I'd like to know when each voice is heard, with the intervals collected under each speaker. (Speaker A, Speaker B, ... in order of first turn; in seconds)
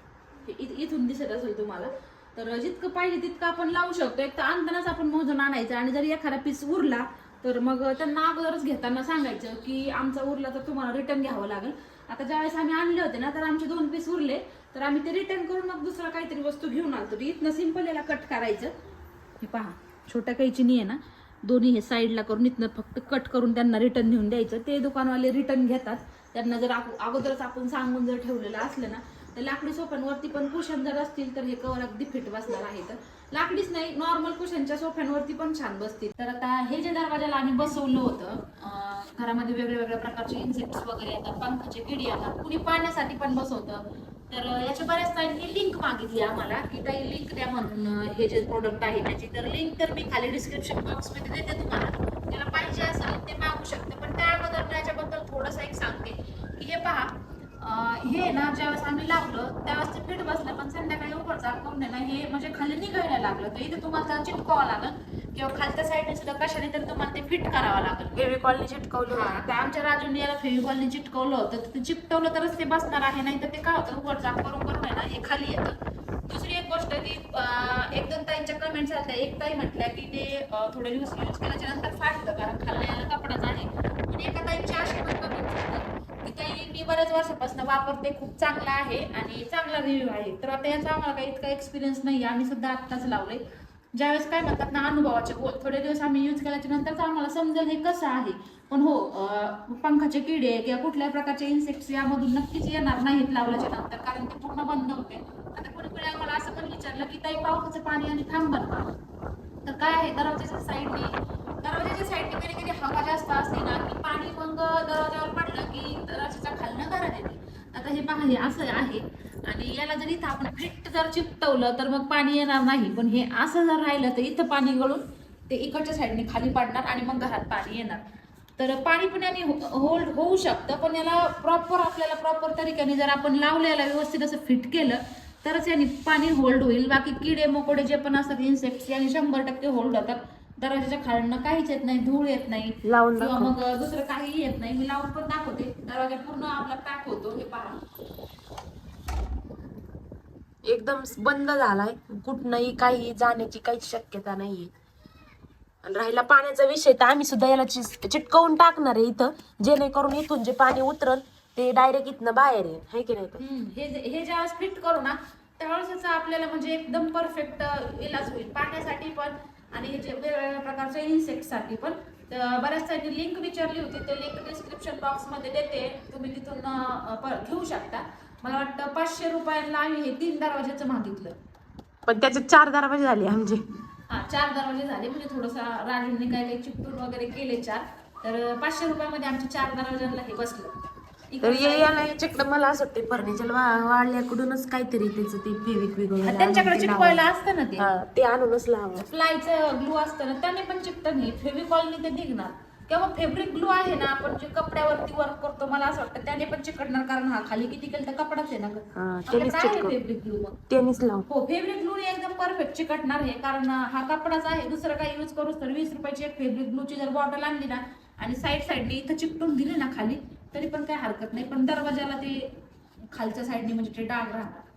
Speaker A: 0.5-18.7, 19.4-68.2, 69.1-75.8, 76.3-93.4, 93.9-108.9, 109.7-128.0, 128.6-147.8, 163.4-181.4, 184.1-190.8, 191.3-192.0, 196.2-197.9, 199.0-210.6, 211.3-222.6, 223.1-224.7
Speaker B: 68.2-69.5, 142.8-143.5, 150.7-154.7, 155.8-163.4, 182.1-183.6, 191.4-199.1, 208.9-210.0, 210.7-211.3